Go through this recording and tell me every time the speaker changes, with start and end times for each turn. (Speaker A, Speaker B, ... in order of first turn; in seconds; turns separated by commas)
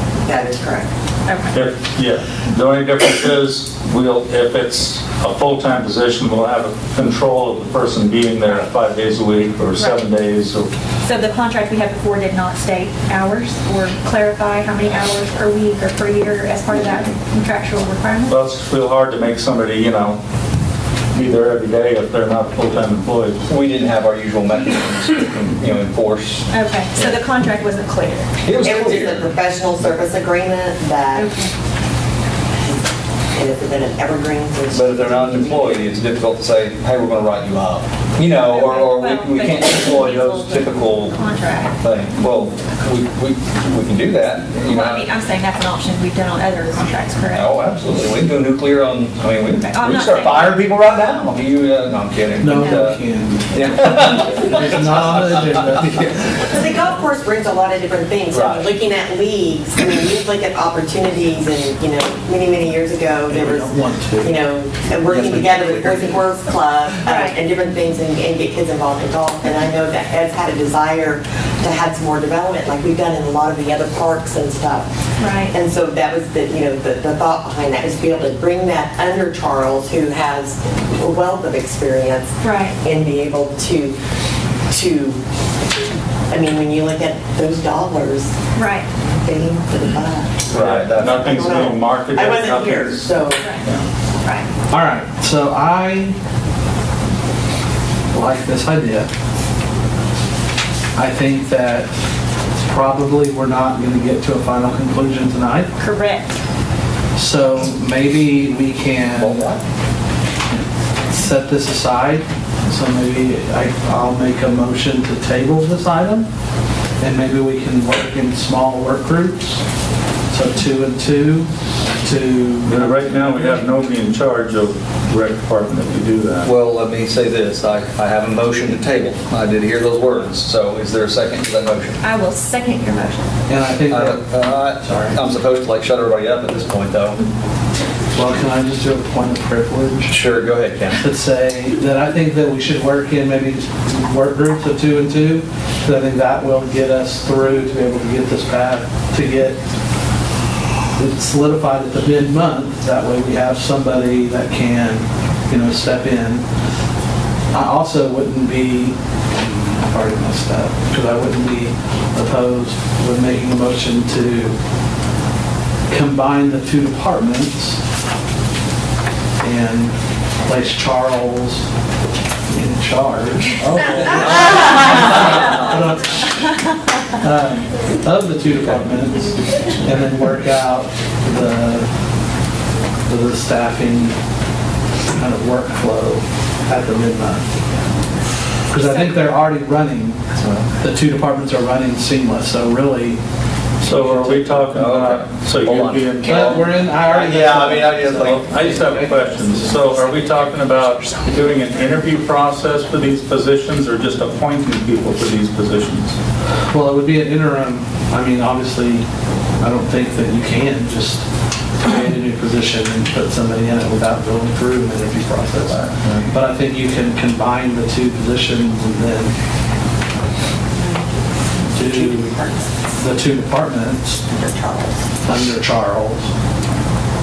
Speaker A: 0.2-0.9, Speaker B: 1.2-1.6, Speaker C: 1.5-10.7, Speaker B: 8.4-8.7, Speaker B: 9.8-10.1, Speaker B: 11.0-18.4, Speaker C: 18.3-20.2, Speaker C: 21.1-23.4, Speaker D: 23.5-27.2, Speaker B: 26.5-28.3, Speaker D: 28.4-29.3, Speaker A: 28.6-31.3, Speaker B: 31.1-31.5, Speaker A: 33.3-35.8, Speaker D: 34.7-41.2, Speaker B: 38.4-41.8, Speaker D: 41.8-45.1, Speaker B: 44.6-47.5, Speaker D: 47.3-53.0, Speaker B: 49.6-50.6, Speaker E: 52.4-56.4, Speaker D: 53.5-56.2, Speaker A: 56.4-74.9, Speaker D: 58.3-58.7, Speaker E: 63.3-64.4, Speaker D: 65.0-66.3, Speaker B: 67.0-67.4, Speaker B: 75.2-75.5, Speaker A: 75.5-83.9, Speaker B: 82.4-82.8, Speaker A: 84.7-85.2, Speaker A: 86.3-88.3, Speaker B: 88.5-88.9, Speaker A: 89.0-93.5, Speaker D: 90.5-91.5, Speaker C: 90.5-93.8, Speaker B: 93.3-93.6, Speaker B: 94.2-94.5, Speaker E: 94.7-96.2, Speaker E: 98.1-99.1, Speaker E: 101.0-101.9, Speaker E: 102.5-105.7, Speaker B: 105.8-106.4, Speaker E: 107.1-109.5, Speaker D: 109.1-109.6, Speaker E: 111.1-116.3, Speaker E: 117.0-119.6, Speaker E: 120.3-121.5, Speaker E: 122.0-123.6, Speaker C: 122.7-126.5, Speaker D: 126.4-132.0, Speaker B: 132.0-133.3, Speaker E: 133.5-135.2, Speaker D: 133.9-137.2, Speaker E: 138.1-140.2, Speaker D: 140.1-141.0, Speaker E: 140.9-149.6, Speaker E: 150.9-156.4, Speaker E: 157.5-164.6, Speaker E: 165.9-167.8, Speaker E: 169.4-171.6, Speaker E: 172.5-176.2, Speaker E: 177.2-181.9, Speaker E: 183.1-184.2, Speaker E: 185.1-187.4, Speaker E: 188.7-190.2, Speaker D: 190.3-190.7, Speaker E: 190.8-193.2, Speaker E: 193.8-194.7, Speaker C: 193.8-196.7, Speaker D: 194.7-198.4, Speaker E: 196.2-199.8, Speaker C: 198.2-206.2, Speaker B: 199.3-201.8, Speaker E: 206.7-209.1, Speaker E: 209.6-211.2, Speaker E: 211.8-219.3, Speaker C: 215.6-216.2, Speaker E: 221.7-222.3, Speaker A: 221.8-222.7, Speaker E: 223.0-224.2, Speaker A: 224.3-225.1, Speaker E: 225.2-226.3